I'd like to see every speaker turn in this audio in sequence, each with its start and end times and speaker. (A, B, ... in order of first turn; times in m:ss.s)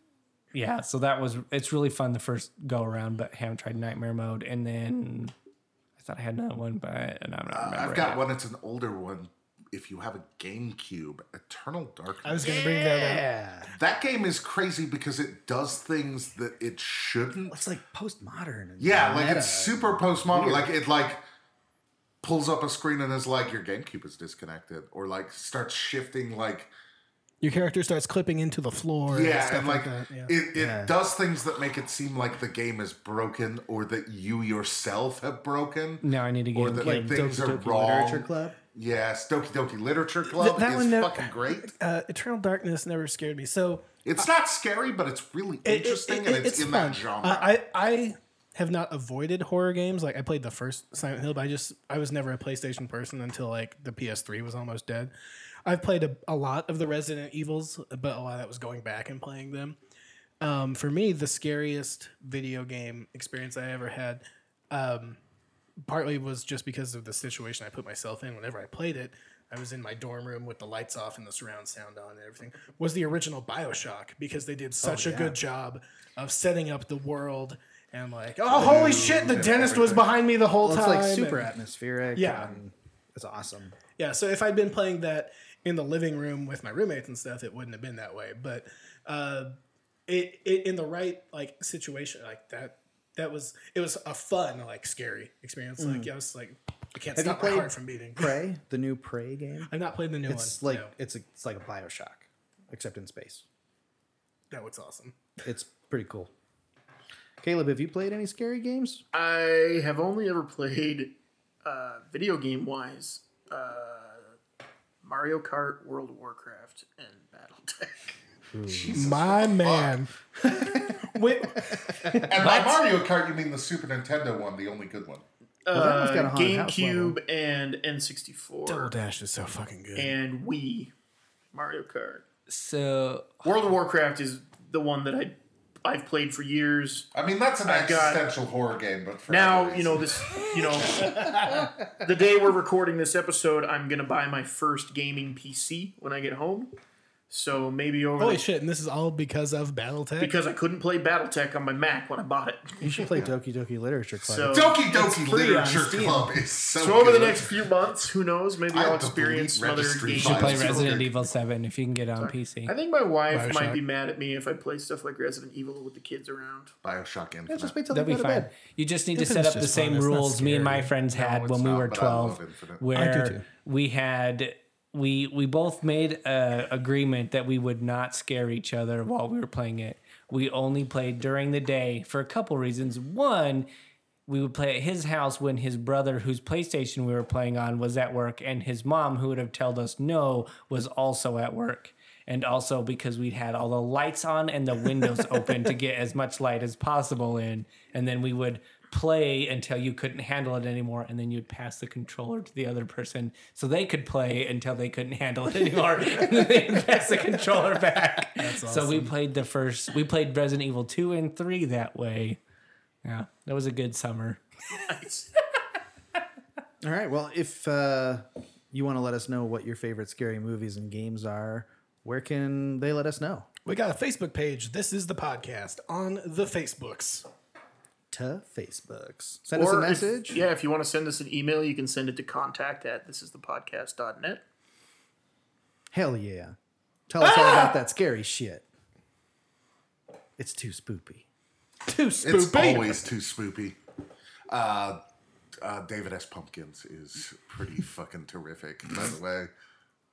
0:00.5-0:05.3 A
0:06.0-0:08.2 A
0:07.5-0:12.6 B
0:12.2-0:13.2 C
0:12.4-0:13.7 D
0:13.7-0:17.6 B
0:17.5-0:20.7 D
0:18.8-0:21.2 B
0:22.2-0:26.7 B
0:27.4-0:30.3 C
0:29.1-0:36.0 B
0:30.5-0:30.9 D
0:36.0-0:37.2 A
0:36.5-0:41.7 B
0:36.8-0:38.6 D
0:40.2-0:44.0 C
0:44.0-0:47.5 B
0:45.6-0:55.1 C
0:55.6-0:59.8 C
1:00.4-1:05.2 C
1:05.8-1:21.5 C
1:14.8-1:15.4 D
1:18.5-1:20.1 B
1:20.6-1:23.8 D
1:22.1-1:22.5 C
1:24.0-1:38.4 C
1:35.8-1:36.1 D
1:37.1-1:39.7 D
1:39.7-1:40.9 C
1:40.2-1:43.4 D
1:44.5-1:45.2 C
1:45.4-1:46.3 D
1:47.4-1:49.0 D
1:49.1-1:54.4 E
1:55.0-1:58.1 E
1:58.5-1:59.0 D
1:58.7-2:00.0 B
1:58.9-2:02.6 C
2:00.4-2:02.3 D
2:02.2-2:05.2 B
2:05.6-2:08.9 E
2:05.7-2:07.2 D
2:08.7-2:10.1 C
2:10.0-2:10.9 E
2:11.5-2:12.2 E
2:12.5-2:13.4 A
2:13.4-2:17.1 E
2:17.1-2:20.1 B
2:17.6-2:18.3 E
2:19.3-2:26.7 E
2:27.3-2:28.4 E
2:28.2-2:30.3 C
2:30.2-2:33.3 E
2:32.8-2:34.7 D
2:34.2-2:36.2 E
2:34.5-2:37.5 B
2:35.7-2:36.3 D
2:36.8-2:41.0 E
2:38.7-2:41.1 B
2:40.2-2:42.7 A
2:42.2-2:46.7 E
2:43.3-2:43.8 C
2:46.8-2:47.8 B
2:47.5-2:48.5 D
2:47.9-3:03.7 A
2:49.1-2:51.4 C
2:51.3-2:52.8 B
2:52.9-2:53.4 C
3:04.3-3:32.4 A
3:28.4-3:29.1 C
3:33.0-3:34.4 A
3:34.8-3:35.3 E
3:36.8-3:43.5 D
3:43.6-3:47.2 C
3:48.1-3:50.4 D
3:49.5-3:54.4 E
3:55.9-3:56.5 D
3:57.1-3:58.6 D
3:57.2-3:57.7 C
4:00.4-4:01.2 D
4:01.9-4:03.0 C
4:02.2-4:03.8 B
4:04.5-4:05.0 B
4:05.6-4:09.5 B